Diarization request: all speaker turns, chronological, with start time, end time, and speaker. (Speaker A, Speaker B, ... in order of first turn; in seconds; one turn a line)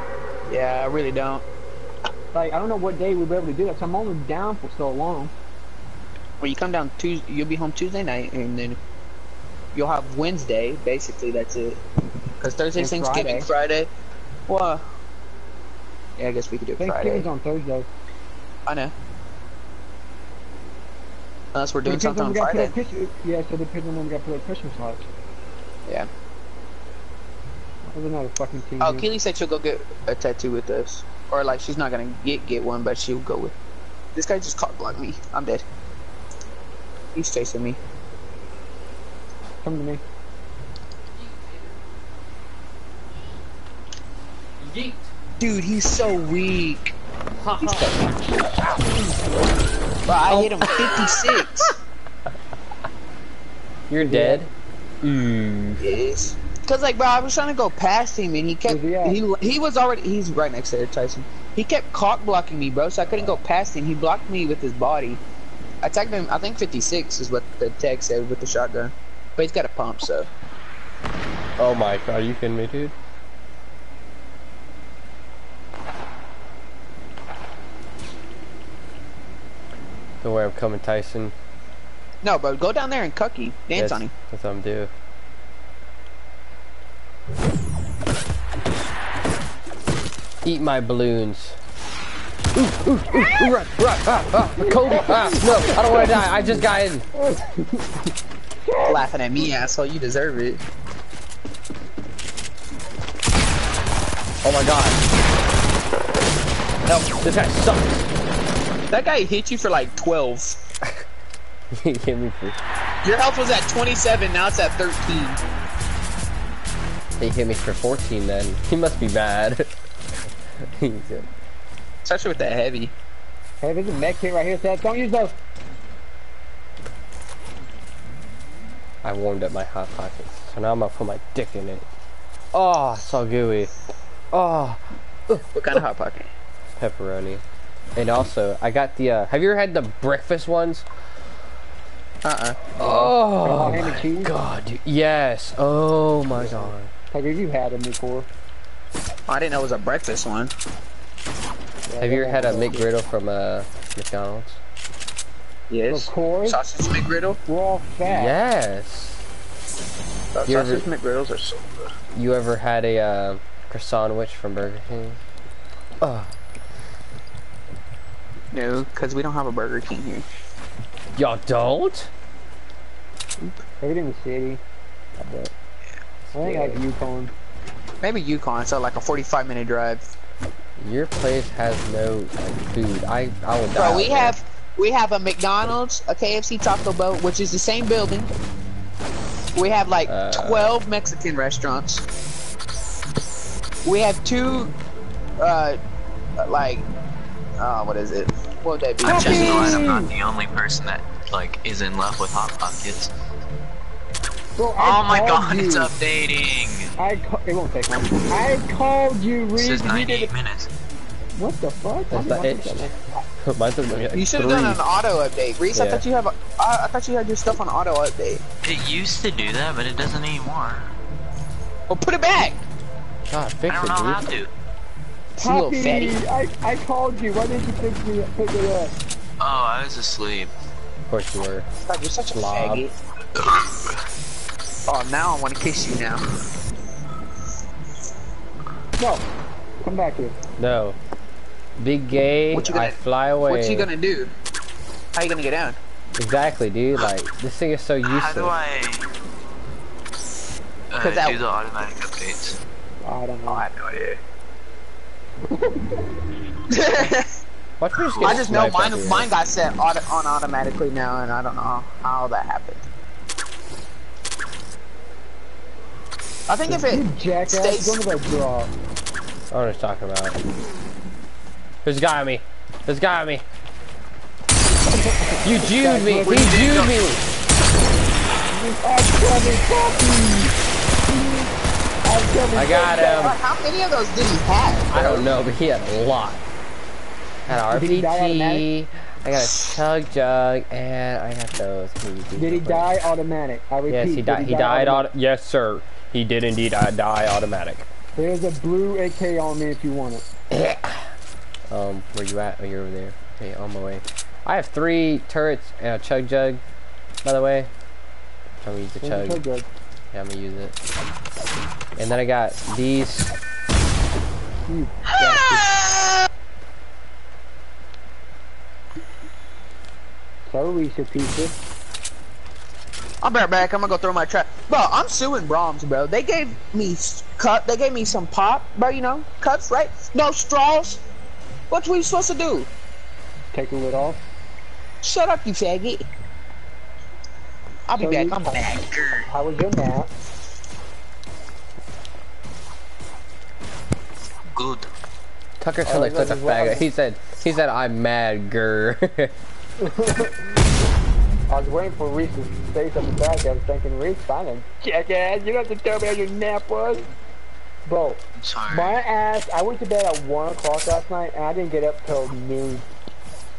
Speaker A: 0.5-1.4
Speaker B: 2.3-5.3
Speaker A: 6.4-8.8
Speaker A: 9.7-11.8
Speaker A: 12.4-13.9
Speaker B: 12.8-13.5
Speaker A: 14.5-14.8
Speaker A: 16.2-17.3
Speaker B: 16.8-17.9
Speaker A: 18.6-18.9
Speaker A: 21.5-22.7
Speaker B: 21.8-25.1
Speaker B: 27.9-29.1
Speaker A: 28.8-33.5
Speaker A: 34.1-35.6
Speaker A: 37.1-37.8
Speaker B: 39.6-40.0
Speaker C: 41.1-41.8
Speaker C: 44.6-45.1
Speaker A: 45.4-46.9
Speaker C: 47.4-48.0
Speaker A: 47.7-47.9
Speaker A: 50.0-51.7
Speaker C: 50.3-51.6
Speaker C: 53.9-54.5
Speaker B: 54.0-54.4
Speaker C: 55.0-55.8
Speaker A: 55.8-65.2
Speaker B: 58.6-59.2
Speaker A: 65.8-70.3
Speaker C: 71.6-72.9
Speaker C: 80.2-81.3
Speaker A: 82.2-84.1
Speaker C: 83.7-84.9
Speaker C: 90.4-91.6
Speaker C: 92.5-97.0
Speaker B: 94.6-96.6
Speaker B: 97.2-97.9
Speaker B: 98.6-99.0
Speaker A: 98.8-100.6
Speaker C: 104.4-105.0
Speaker A: 106.8-107.1
Speaker C: 107.2-108.0
Speaker A: 108.9-110.6
Speaker C: 111.8-112.6
Speaker A: 113.0-115.4
Speaker C: 117.2-119.7
Speaker C: 120.7-121.3
Speaker A: 122.0-122.9
Speaker B: 123.6-125.3
Speaker C: 129.0-131.9
Speaker C: 132.5-133.7
Speaker C: 134.3-135.8
Speaker A: 135.5-136.3
Speaker C: 136.8-137.4
Speaker C: 137.9-140.8
Speaker A: 142.2-142.6
Speaker C: 142.8-146.9
Speaker B: 142.8-144.3
Speaker B: 146.4-148.3
Speaker A: 149.3-150.5
Speaker B: 151.9-152.9
Speaker C: 152.0-154.6
Speaker A: 155.7-157.4
Speaker B: 155.9-156.6
Speaker B: 157.4-158.3
Speaker C: 158.1-159.2
Speaker A: 160.3-161.9
Speaker C: 160.4-160.8
Speaker C: 162.1-165.2
Speaker C: 166.0-166.3
Speaker A: 168.5-170.3
Speaker C: 171.2-172.1
Speaker B: 173.8-174.6
Speaker B: 175.2-175.5
Speaker C: 176.3-176.8
Speaker B: 176.3-177.3
Speaker A: 178.0-180.0
Speaker C: 180.8-184.4
Speaker A: 183.7-188.3
Speaker A: 189.5-192.0
Speaker C: 190.1-190.8
Speaker A: 193.8-194.7
Speaker A: 195.4-195.8
Speaker A: 196.4-196.8
Speaker A: 197.6-199.8
Speaker B: 199.0-200.1
Speaker D: 199.0-203.1
Speaker B: 204.6-205.9
Speaker D: 204.8-206.9
Speaker B: 207.0-210.3
Speaker D: 209.6-210.7
Speaker B: 211.3-212.9
Speaker C: 212.1-212.9
Speaker C: 213.4-214.8
Speaker A: 214.1-218.4
Speaker C: 215.7-216.0
Speaker D: 218.6-220.9
Speaker A: 221.9-222.7
Speaker C: 223.3-224.3
Speaker D: 223.7-224.5
Speaker A: 225.3-226.2
Speaker B: 225.4-228.9
Speaker D: 229.4-230.5
Speaker C: 231.1-231.7
Speaker A: 231.9-232.9
Speaker C: 232.3-232.8
Speaker D: 233.4-233.9
Speaker A: 234.9-236.2
Speaker B: 239.0-239.3
Speaker B: 239.8-240.4
Speaker C: 240.6-241.0
Speaker C: 241.8-243.9
Speaker A: 242.5-244.3
Speaker A: 245.1-245.8
Speaker C: 246.2-248.6
Speaker D: 248.0-249.1
Speaker D: 250.9-252.6
Speaker A: 251.0-251.4
Speaker B: 253.0-253.6
Speaker A: 253.5-254.2
Speaker B: 255.5-255.8
Speaker A: 256.7-257.3
Speaker C: 257.8-259.3
Speaker D: 257.9-258.5
Speaker A: 258.2-262.9
Speaker A: 266.5-268.0
Speaker B: 266.7-268.7
Speaker C: 269.5-270.4
Speaker C: 271.8-273.4
Speaker B: 274.9-276.4
Speaker C: 275.4-277.2
Speaker A: 276.2-276.9
Speaker B: 278.5-280.5
Speaker B: 281.1-281.5
Speaker B: 282.0-283.3
Speaker C: 282.5-283.4
Speaker A: 282.9-285.3
Speaker C: 284.9-286.4
Speaker C: 287.4-292.9
Speaker B: 287.7-288.6
Speaker B: 292.4-295.1
Speaker C: 293.9-297.9
Speaker B: 298.1-300.3
Speaker C: 300.5-301.1
Speaker C: 301.7-306.6
Speaker C: 307.2-307.7
Speaker C: 308.6-309.4
Speaker B: 309.0-309.7
Speaker C: 310.1-310.7
Speaker C: 311.9-313.3
Speaker B: 314.7-315.7
Speaker B: 320.5-321.5
Speaker A: 323.2-331.0
Speaker A: 331.7-332.7
Speaker B: 333.5-334.2
Speaker A: 335.0-336.1
Speaker A: 337.9-339.3
Speaker B: 337.9-338.7
Speaker B: 339.3-340.1
Speaker D: 344.5-344.9
Speaker C: 345.6-349.3
Speaker B: 345.8-346.9
Speaker B: 349.8-350.6
Speaker B: 351.5-357.1
Speaker B: 357.9-362.9
Speaker D: 358.4-359.0